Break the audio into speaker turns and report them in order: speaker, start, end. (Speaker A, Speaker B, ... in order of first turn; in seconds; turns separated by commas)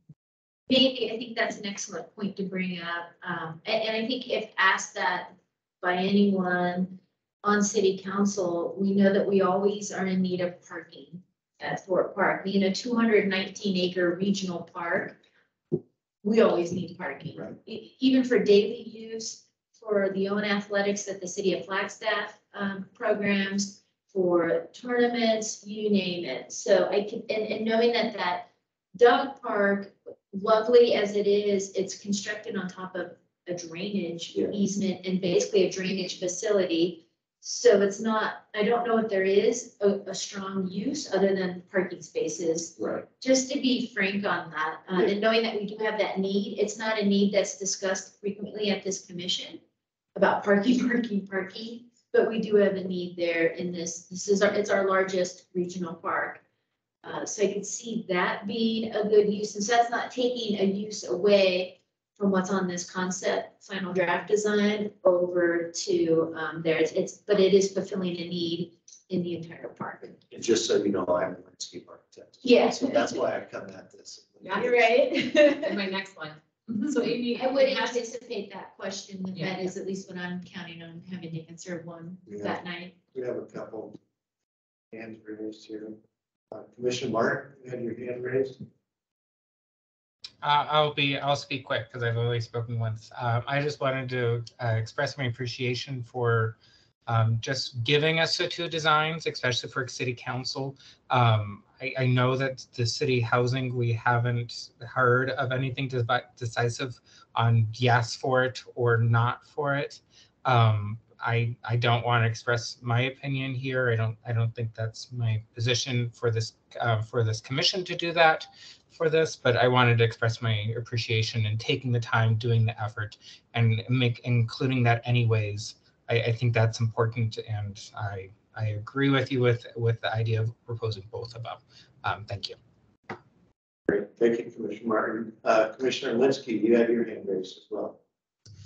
Speaker A: 0.7-15.2, Speaker A: 16.2-49.6, Speaker B: 34.3-34.6, Speaker B: 42.8-43.1, Speaker A: 50.1-56.4, Speaker A: 57.0-70.2, Speaker B: 70.0-74.9, Speaker A: 72.4-73.2, Speaker C: 74.4-74.9, Speaker A: 74.5-75.8, Speaker C: 75.6-78.0, Speaker A: 77.3-83.0, Speaker C: 79.3-79.7, Speaker B: 82.2-84.0, Speaker B: 84.9-86.0, Speaker B: 86.5-88.6, Speaker D: 90.4-132.6, Speaker B: 133.9-138.0